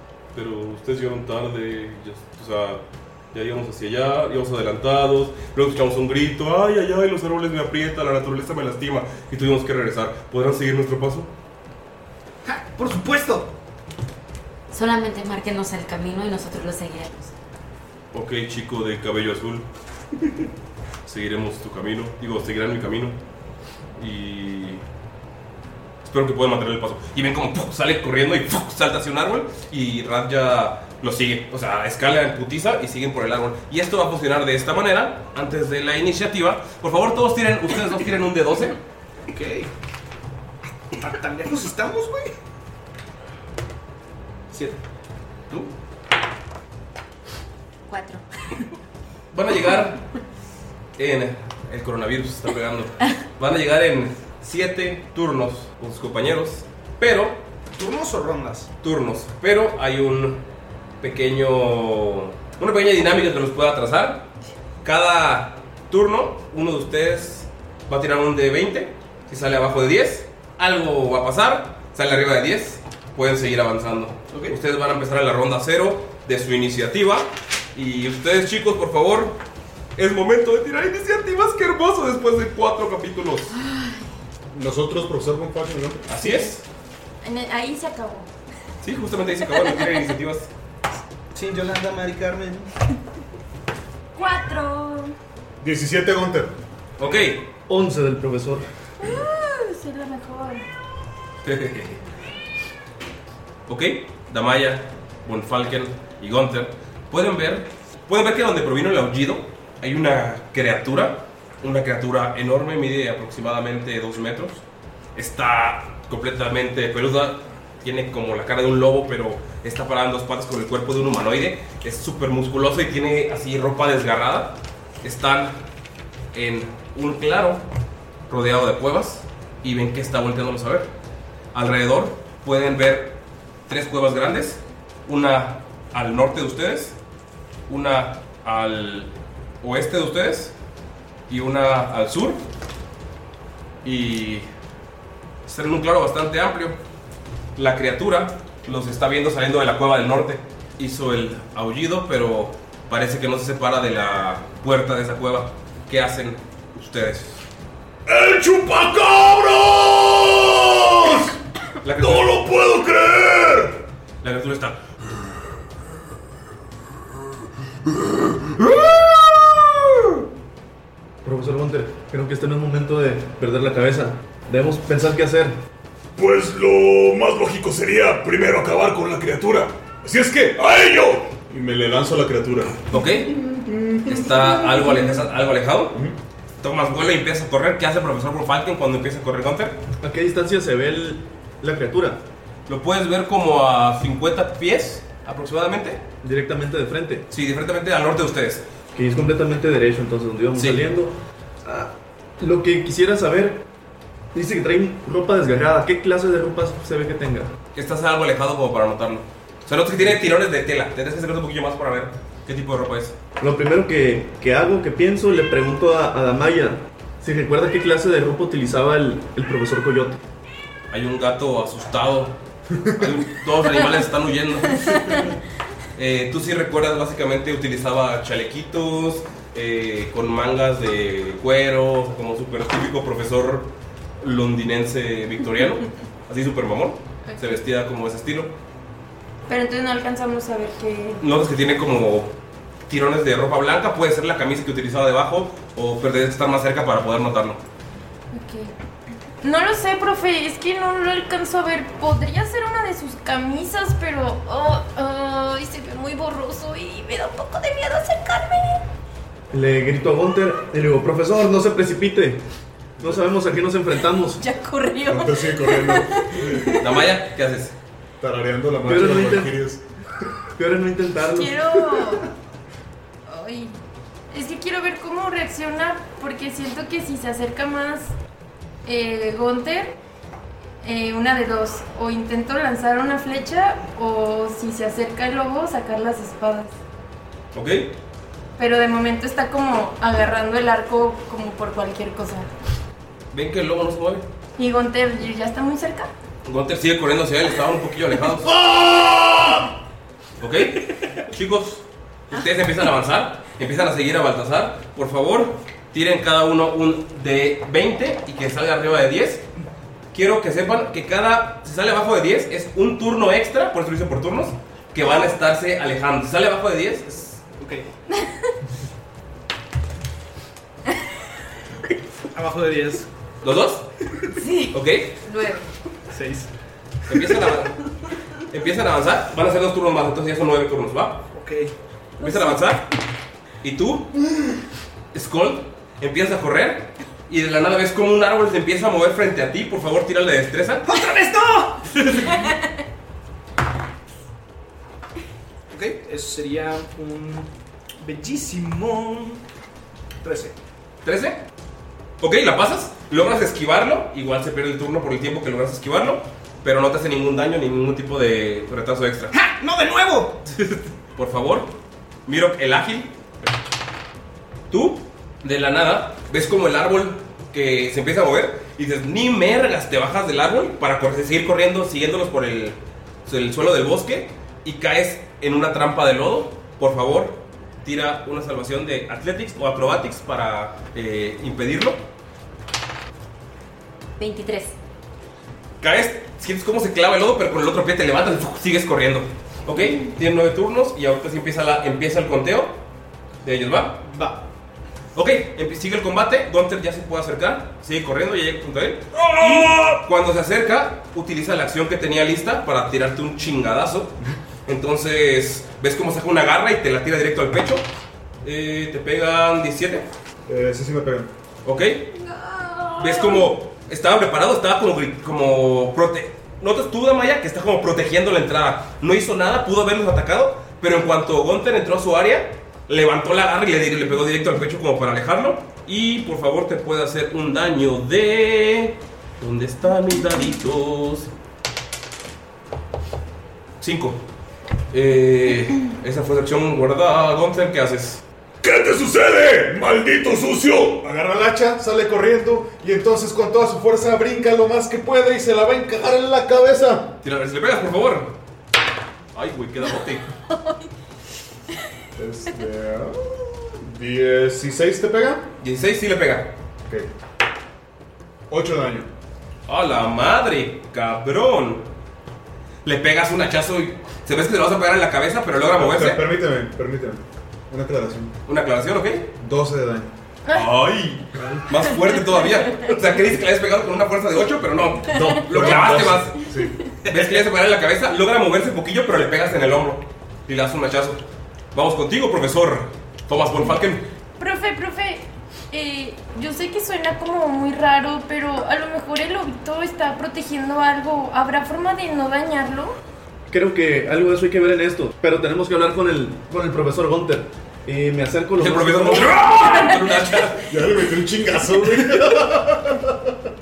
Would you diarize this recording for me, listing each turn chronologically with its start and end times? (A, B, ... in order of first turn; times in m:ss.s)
0:00.3-0:02.8 A
0:03.3-0:11.3 A
0:12.4-0:13.5 B
0:14.7-0:17.3 C
0:18.1-0:19.6 A
0:21.0-0:23.2 A
0:24.0-0:24.8 A
0:26.0-0:38.8 A
0:39.3-0:39.7 B
0:40.9-0:42.3 B
0:44.5-0:44.8 B
0:47.9-0:48.2 C
0:49.3-0:50.0 A
0:51.0-0:57.4 A
0:57.7-0:58.7 B
0:58.8-1:00.4 A
1:01.0-1:04.3 A
1:04.8-1:19.4 A
1:20.0-1:23.5 A
1:23.5-1:24.1 D
1:24.5-1:26.0 E
1:26.1-1:26.6 A
1:27.2-1:28.3 D
1:28.8-1:30.5 A
1:31.3-1:32.7 B
1:34.2-1:35.1 D
1:35.6-1:36.5 E
1:37.0-1:37.4 A
1:37.7-1:38.6 F
1:39.0-1:40.6 D
1:41.4-1:42.0 A
1:43.7-1:54.6 A
1:55.1-2:05.6 A
2:06.3-2:07.6 A
2:08.3-2:10.9 A
2:11.5-2:13.2 A
2:13.7-2:17.0 A
2:17.7-2:19.1 A
2:19.6-2:20.5 A
2:21.3-2:22.4 A
2:23.8-2:24.4 A
2:25.4-2:26.8 A
2:27.6-2:37.4 A
2:38.0-2:41.3 G
2:41.8-2:42.4 A
2:42.0-2:43.8 G
2:44.2-2:44.8 A
2:51.2-2:55.6 F
2:56.2-3:01.3 G
3:01.4-3:02.8 E
3:02.9-3:03.4 A
3:03.5-3:04.4 E
3:04.0-3:06.0 A
3:06.6-3:09.8 A
3:10.0-3:12.2 F
3:12.7-3:16.0 A
3:16.2-3:17.2 F
3:17.3-3:18.6 A
3:18.9-3:23.6 F
3:20.6-3:20.8 A
3:24.3-3:27.5 F
3:27.7-3:33.1 A
3:33.4-3:40.2 F
3:40.9-3:42.4 A
3:43.0-3:45.4 A
3:44.8-3:45.2 D
3:46.0-3:58.5 A
3:59.5-4:01.2 D
4:01.2-4:02.3 A
4:02.9-4:07.6 A
4:08.3-4:08.7 D
4:09.4-4:18.8 D
4:19.5-4:22.4 F
4:23.0-4:24.4 F
4:24.4-4:26.8 D
4:25.1-4:26.7 E
4:26.8-4:27.7 A
4:28.2-4:29.8 E
4:28.8-4:29.5 F
4:30.6-4:32.2 F
4:31.3-4:32.3 D
4:33.3-4:33.7 D
4:34.3-4:38.1 D
4:38.8-4:40.0 D
4:40.8-4:46.8 D
4:47.5-4:47.9 A
4:48.6-4:52.5 D
4:53.3-4:54.2 A
4:54.6-4:56.1 D
4:56.4-4:58.5 A
4:58.5-4:59.5 G
5:00.4-5:09.4 A
5:10.1-5:17.4 A
5:15.0-5:15.3 D
5:17.6-5:17.9 B
5:18.2-5:18.5 D
5:22.3-5:23.1 B
5:23.4-5:23.8 A
5:24.4-5:24.7 D
5:24.7-5:25.2 A
5:25.2-5:25.6 C
5:26.1-5:26.5 B
5:27.1-5:27.8 A
5:28.5-5:31.2 A
5:31.3-5:31.7 B
5:32.2-5:32.9 A
5:32.2-5:32.6 D
5:33.6-5:34.1 A
5:35.1-5:40.8 A
5:40.8-5:42.2 B
5:45.7-5:47.5 B
5:48.0-5:49.4 B
5:50.2-5:50.6 B
5:51.0-5:51.4 A
5:52.2-5:59.3 A
5:59.3-6:00.4 B
6:00.6-6:01.7 A
6:02.2-6:03.1 A
6:04.7-6:22.0 A
6:24.2-6:24.7 C
6:25.8-6:32.8 A
6:33.4-6:34.0 A
6:34.0-6:34.4 B
6:35.1-6:44.1 A
6:44.6-6:47.8 A
6:48.4-6:50.1 A
6:50.5-6:51.3 E
6:51.6-6:52.0 A
6:52.2-6:53.5 D
6:52.9-7:11.3 A
7:13.8-7:14.2 A
7:14.9-7:18.2 A
7:18.6-7:21.1 G
7:21.0-7:27.2 E
7:27.2-7:28.3 A
7:29.3-7:30.2 A
7:30.5-7:30.8 D
7:32.2-7:35.4 E
7:35.6-7:36.5 A
7:38.5-7:39.1 E
7:39.7-7:41.8 A
7:42.8-7:46.2 A
7:45.8-7:48.3 E
7:48.5-7:49.3 A
7:49.4-7:50.1 E
7:50.5-7:56.4 A
7:55.1-7:56.8 E
7:57.1-8:01.2 A
7:57.1-7:57.4 B
8:01.7-8:04.0 A
8:04.4-8:13.0 D
8:13.5-8:19.4 F
8:18.6-8:20.7 A
8:19.6-8:19.9 D
8:20.7-8:23.3 E